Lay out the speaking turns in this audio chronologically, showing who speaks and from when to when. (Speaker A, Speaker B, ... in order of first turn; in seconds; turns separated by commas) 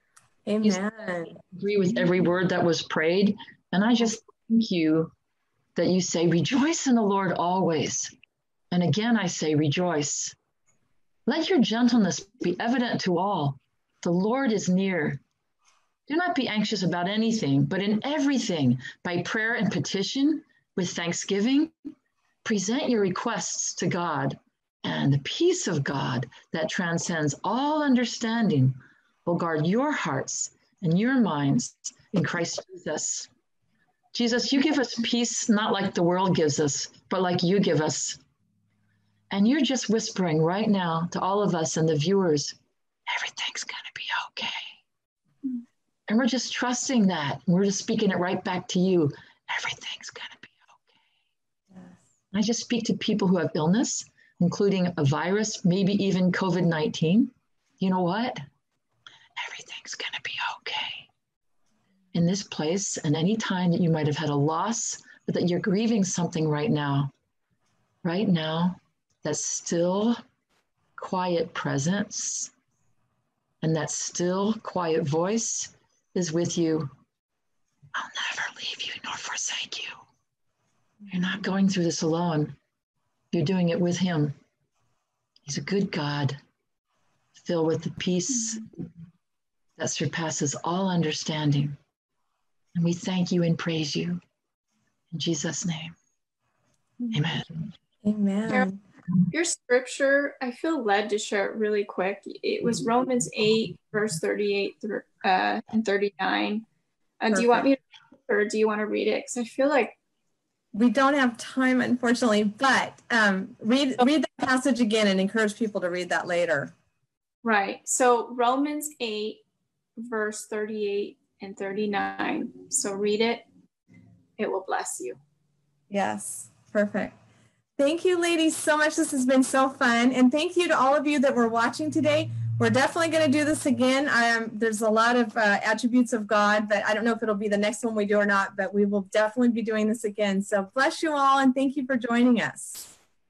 Speaker A: 0.5-1.4, Speaker B: 1.3-5.1, Speaker B: 5.8-8.1, Speaker B: 8.7-10.3, Speaker B: 11.2-15.2, Speaker B: 16.1-21.7, Speaker B: 22.4-33.3, Speaker B: 34.1-38.2, Speaker B: 39.3-42.5, Speaker B: 43.1-44.7, Speaker B: 46.1-50.7, Speaker A: 51.7-52.0, Speaker B: 52.3-58.4, Speaker B: 59.4-61.1, Speaker B: 62.1-67.1, Speaker B: 68.0-70.2, Speaker B: 71.0-72.5, Speaker B: 73.6-76.9, Speaker B: 77.9-80.0, Speaker B: 81.1-82.5, Speaker B: 83.3-84.3, Speaker B: 85.4-86.4, Speaker B: 87.3-88.8, Speaker C: 88.4-88.6, Speaker B: 89.8-91.8, Speaker B: 92.7-94.2, Speaker B: 95.1-96.0, Speaker B: 97.1-97.5, Speaker A: 98.0-98.8, Speaker C: 99.3-106.6, Speaker C: 107.2-110.0, Speaker A: 107.3-107.7, Speaker A: 110.7-116.7, Speaker C: 117.4-119.4, Speaker C: 120.0-123.4, Speaker C: 124.4-125.2, Speaker A: 125.9-127.2, Speaker A: 127.8-142.9